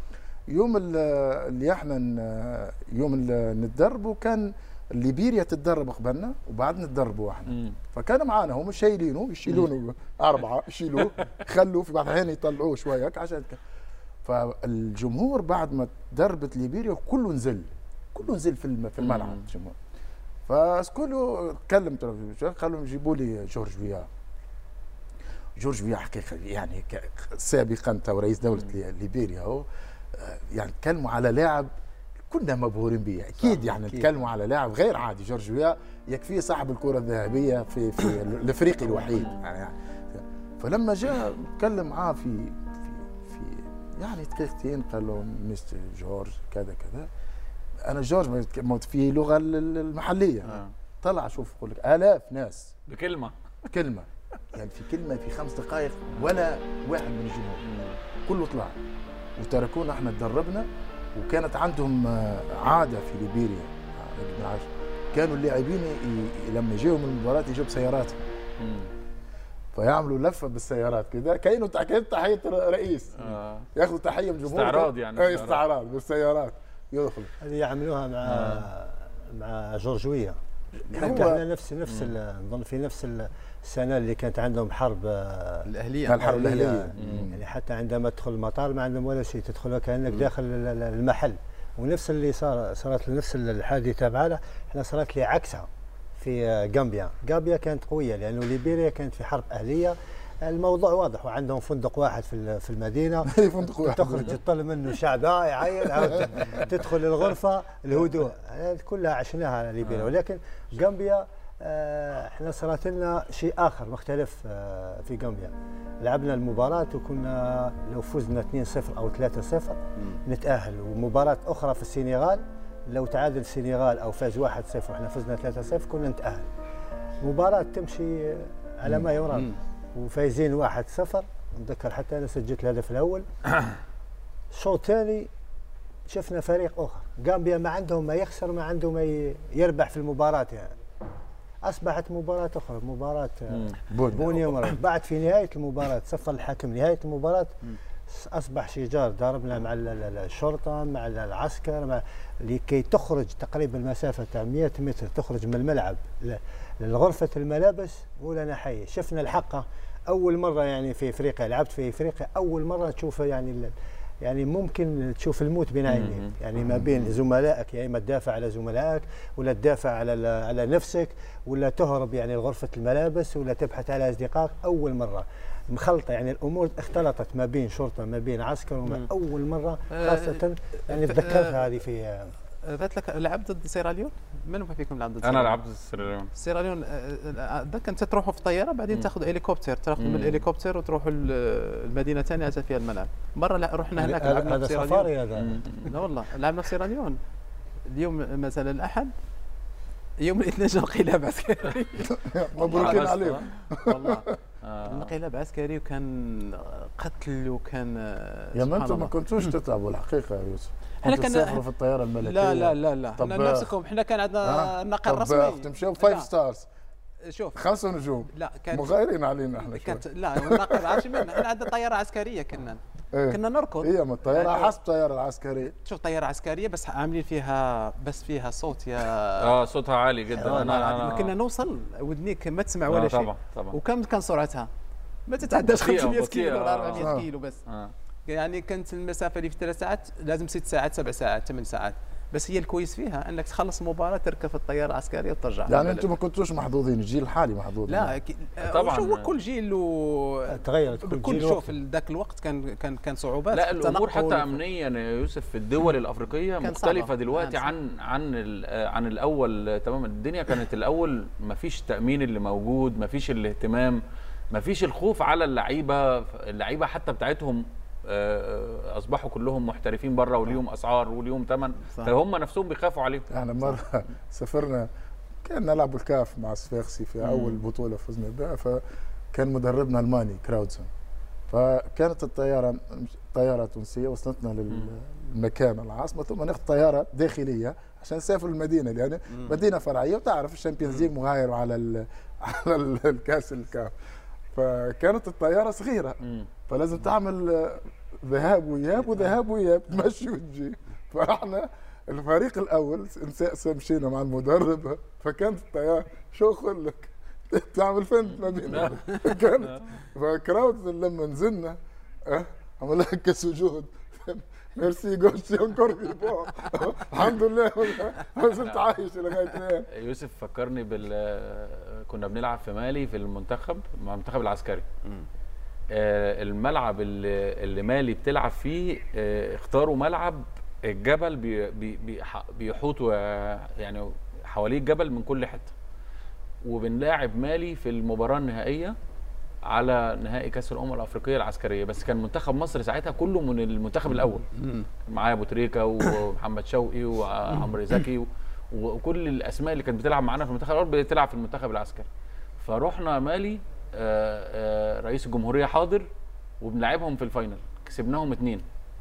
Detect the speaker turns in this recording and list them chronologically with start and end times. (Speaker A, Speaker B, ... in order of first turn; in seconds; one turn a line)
Speaker A: 0.5-13.6
Speaker B: 7.5-7.8
Speaker A: 14.2-19.8
Speaker B: 19.0-19.4
Speaker A: 20.5-24.1
Speaker A: 25.6-31.7
Speaker A: 32.3-47.1
Speaker C: 33.6-34.1
Speaker B: 39.1-39.3
Speaker A: 47.9-52.7
Speaker B: 50.4-50.7
Speaker B: 52.9-53.3
Speaker A: 53.7-57.6
Speaker B: 57.6-58.0
Speaker A: 58.2-58.7
Speaker A: 59.4-68.2
Speaker B: 68.6-68.9
Speaker A: 69.7-77.3
Speaker B: 73.2-73.7
Speaker B: 74.5-75.6
Speaker C: 77.4-80.4
Speaker B: 78.2-78.7
Speaker C: 80.9-126.5
Speaker A: 80.9-81.4
Speaker B: 81.9-82.1
Speaker D: 85.7-86.2
Speaker A: 86.0-87.4
Speaker B: 87.0-87.3
Speaker A: 103.3-104.3
Speaker C: 127.2-133.3
Speaker D: 129.3-129.6
Speaker C: 134.5-135.3
Speaker C: 136.1-140.8
Speaker C: 141.6-182.3
Speaker B: 143.5-143.8
Speaker A: 143.9-144.5
Speaker B: 165.9-167.1
Speaker D: 179.9-181.7
Speaker D: 182.6-185.6
Speaker B: 185.2-186.3
Speaker D: 186.3-195.1
Speaker B: 190.0-190.4
Speaker C: 193.9-195.6
Speaker B: 195.4-195.9
Speaker D: 195.8-197.2
Speaker D: 197.8-199.1
Speaker D: 200.2-203.2
Speaker A: 202.1-204.3
Speaker B: 202.7-203.4
Speaker D: 203.8-204.3
Speaker B: 204.6-205.1
Speaker D: 204.8-209.1
Speaker A: 208.5-213.7
Speaker D: 211.0-211.6
Speaker D: 212.2-216.3
Speaker A: 214.4-216.6
Speaker D: 217.2-217.6
Speaker A: 217.6-221.4
Speaker D: 218.3-219.0
Speaker D: 219.6-224.7
Speaker A: 223.1-225.7
Speaker D: 225.8-229.6
Speaker B: 229.4-231.3
Speaker D: 230.4-234.7
Speaker C: 230.4-231.1
Speaker B: 232.9-233.8
Speaker D: 235.3-237.6
Speaker B: 235.7-237.9
Speaker A: 237.0-237.2
Speaker D: 238.3-246.1
Speaker A: 245.7-248.1
Speaker D: 247.9-254.6
Speaker B: 248.6-249.3
Speaker C: 250.5-251.7
Speaker B: 253.5-264.0
Speaker D: 256.6-257.7
Speaker B: 264.5-273.3
Speaker A: 273.3-274.9
Speaker A: 275.4-278.8
Speaker B: 277.2-277.6
Speaker A: 279.3-280.9
Speaker A: 281.5-293.9
Speaker D: 289.3-289.6
Speaker B: 290.8-291.1
Speaker A: 294.5-319.9
Speaker B: 296.2-296.5
Speaker B: 308.6-309.0
Speaker B: 309.6-309.9
Speaker B: 318.6-318.9
Speaker B: 319.9-324.9
Speaker B: 325.9-335.7
Speaker B: 336.6-338.9
Speaker B: 339.7-344.4
Speaker D: 344.6-344.9
Speaker B: 345.0-352.1
Speaker B: 352.6-356.1
Speaker B: 356.6-358.6